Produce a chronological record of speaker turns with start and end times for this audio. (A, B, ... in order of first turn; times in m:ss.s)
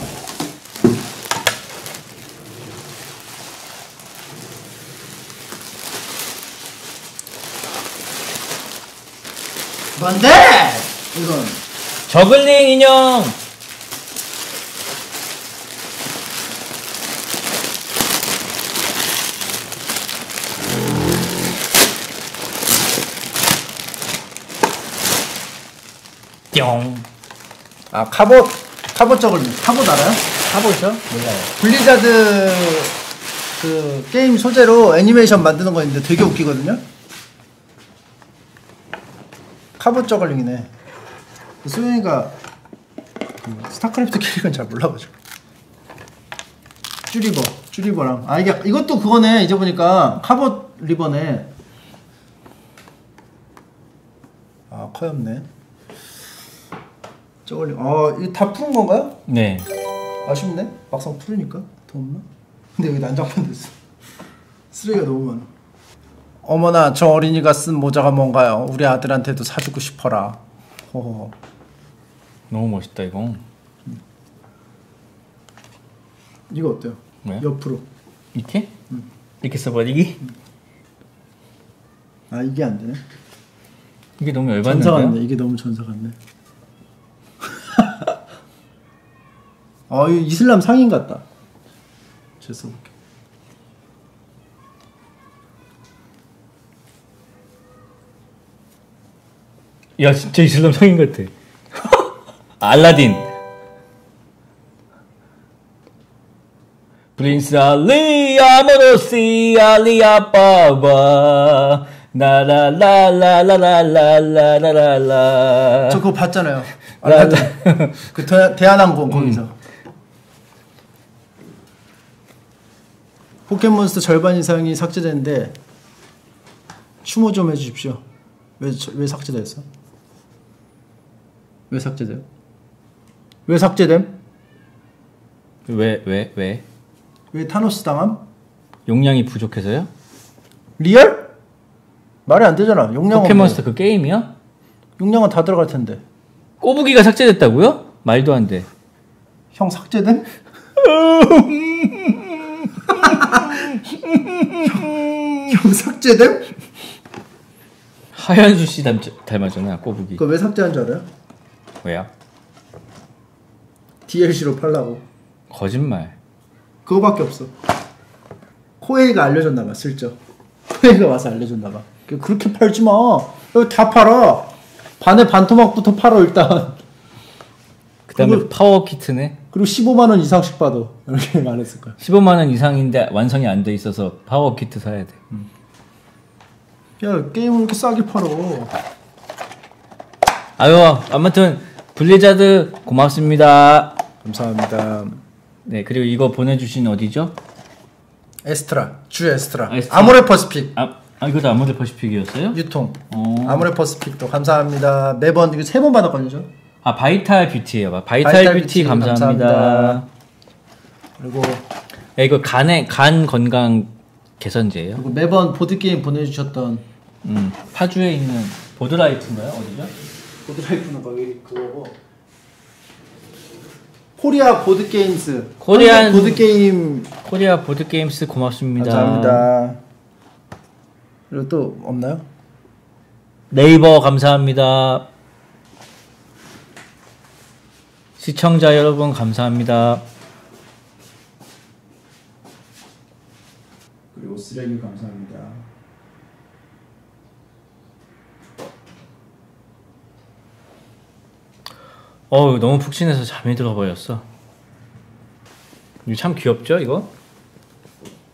0:10.0-0:11.6 A
0:12.1-0:13.4 B
0:26.5-0:27.0 B
0:27.9-0:30.2 A
0:30.5-0:31.2 B
0:31.1-0:32.9 A
0:33.6-0:36.8 A
0:39.8-0:40.7 A
0:41.6-0:42.3 A
0:43.4-0:45.1 A
0:47.1-0:51.5 A
0:54.7-0:55.5 A
0:57.4-0:59.1 A
0:59.3-0:59.7 B
1:00.2-1:02.2 A
1:02.8-1:03.7 A
1:04.7-1:05.5 A
1:06.4-1:10.4 A
1:10.9-1:11.3 A
1:12.5-1:13.4 B
1:16.5-1:17.8 A
1:18.3-1:18.7 B
1:19.4-1:20.2 B
1:22.3-1:23.0 A
1:24.2-1:25.2 B
1:24.6-1:26.2 A
1:27.6-1:28.0 A
1:29.9-1:31.2 A
1:32.4-1:32.9 A
1:40.0-1:42.0 B
1:42.6-1:43.3 B
1:47.2-1:56.0 B
1:55.9-1:59.5 A
1:57.0-1:58.0 B
1:59.1-1:59.4 B
2:03.5-2:05.5 A
2:07.0-2:08.0 A
2:08.6-2:09.6 A
2:11.7-2:12.2 A
2:13.5-2:14.1 A
2:15.7-2:16.6 B
2:17.3-2:18.2 A
2:18.9-2:19.9 B
2:20.8-2:21.3 A
2:22.3-2:23.6 A
2:23.1-2:24.3 B
2:25.0-2:26.0 A
2:26.6-2:28.7 B
2:29.5-2:30.3 A
2:30.8-2:35.3 B
2:32.9-2:33.8 A
2:34.6-2:36.5 A
2:38.1-2:40.2 B
2:40.2-2:41.0 A
2:41.8-2:42.1 B
2:44.1-2:45.0 A
2:45.5-2:46.2 B
2:46.8-2:47.5 A
2:48.8-2:50.2 A
2:50.7-2:56.8 A
2:58.1-2:59.4 B
2:58.1-2:58.5 A
2:59.5-3:02.0 A
3:02.0-3:05.2 B
3:07.0-3:08.7 A
3:10.6-3:14.0 B
3:14.2-3:15.2 A
3:15.6-3:17.3 B
3:18.4-3:20.7 A
3:19.7-3:20.2 B
3:20.7-3:22.6 B
3:22.5-3:26.5 A
3:23.1-3:23.7 B
3:26.8-3:30.0 B
3:28.2-3:30.0 A
3:31.2-3:31.6 A
3:32.2-3:35.0 B
3:35.0-3:36.8 A
3:37.2-3:39.9 B
3:40.4-3:41.9 A
3:44.2-3:47.1 A
3:45.6-3:46.4 B
3:47.2-3:49.5 B
3:48.8-3:49.8 A
3:51.3-3:52.2 A
3:53.5-3:55.1 B
3:58.2-4:00.0 B
4:04.1-4:05.6 A
4:12.3-4:14.2 B
4:16.0-4:17.1 B